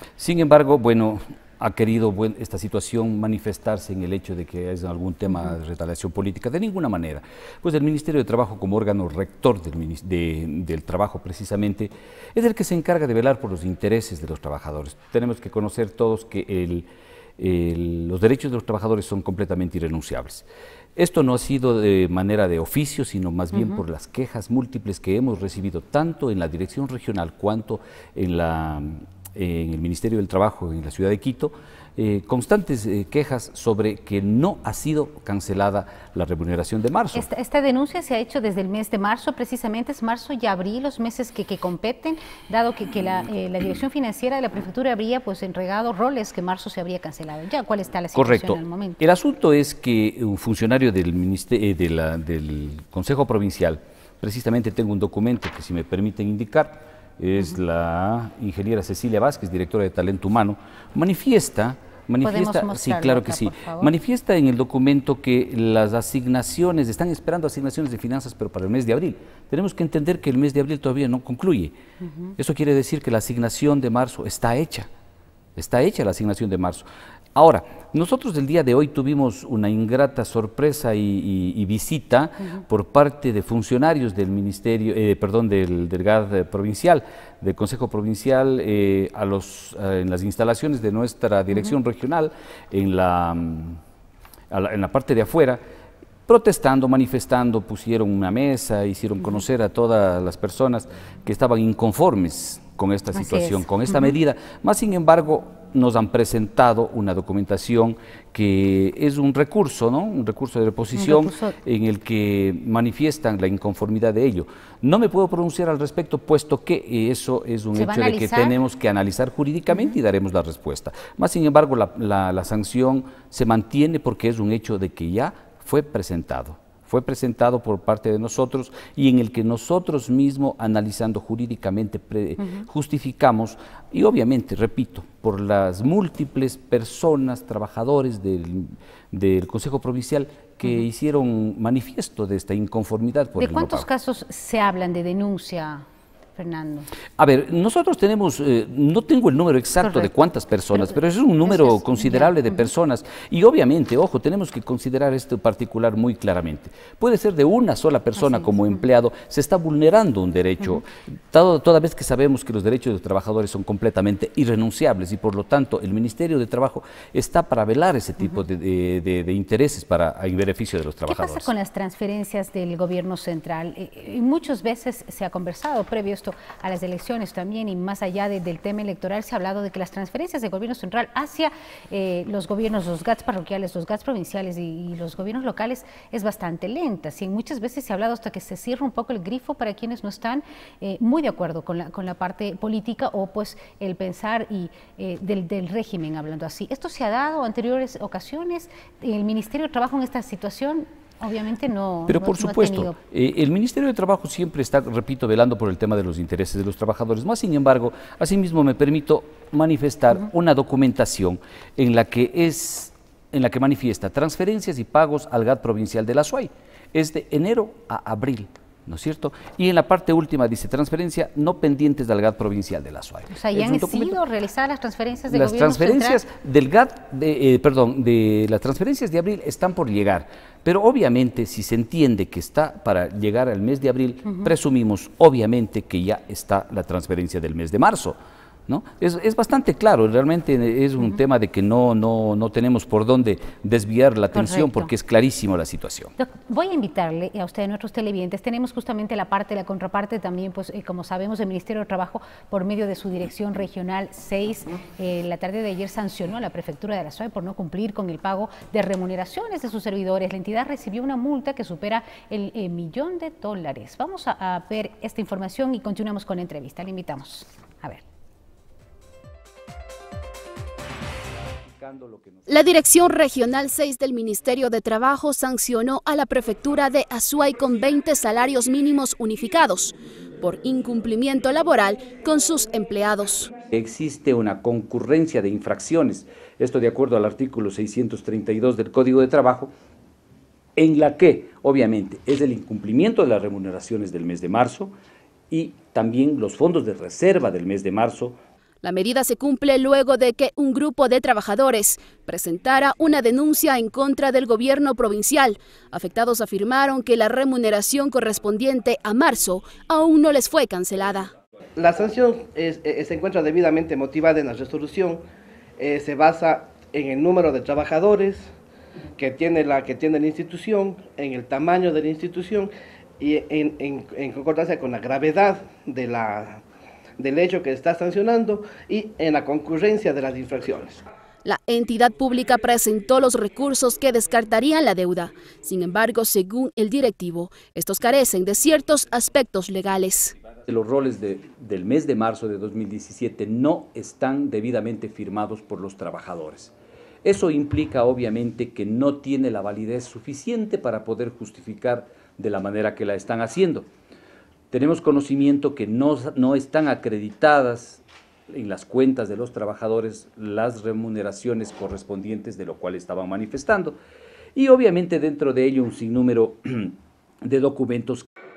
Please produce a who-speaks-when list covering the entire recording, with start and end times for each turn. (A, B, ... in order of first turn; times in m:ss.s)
0:00.2-0:16.9 A
0:17.4-0:37.3 A
0:23.5-0:23.8 B
0:37.1-0:49.0 B
0:48.1-1:11.7 A
1:02.2-1:03.9 B
1:12.4-1:14.9 A
1:15.6-1:33.8 A
1:34.5-1:35.6 A
1:36.3-2:23.9 A
1:43.1-1:43.6 B
1:50.9-1:51.5 B
1:57.7-1:58.6 B
2:23.4-2:25.8 B
2:26.4-2:26.9 B
2:27.2-2:51.5 A
2:29.8-2:30.1 B
2:30.7-2:32.5 B
2:51.0-3:23.0 B
3:22.1-3:44.2 A
3:43.3-3:46.2 B
3:45.3-3:58.2 A
3:54.2-3:54.5 B
3:58.7-4:06.1 A
4:04.3-4:04.9 B
4:06.2-4:28.0 B
4:31.6-4:32.8 A
4:32.5-4:43.5 C
4:43.7-4:49.7 A
4:50.8-4:54.9 A
4:55.5-4:58.4 A
4:58.8-5:11.3 C
5:11.8-5:15.2 D
5:15.8-5:18.5 D
5:19.2-5:26.6 D
5:27.2-5:31.0 D
5:31.4-5:40.3 C
5:40.6-5:53.9 A
5:54.7-6:04.0 A
6:04.5-6:08.2 A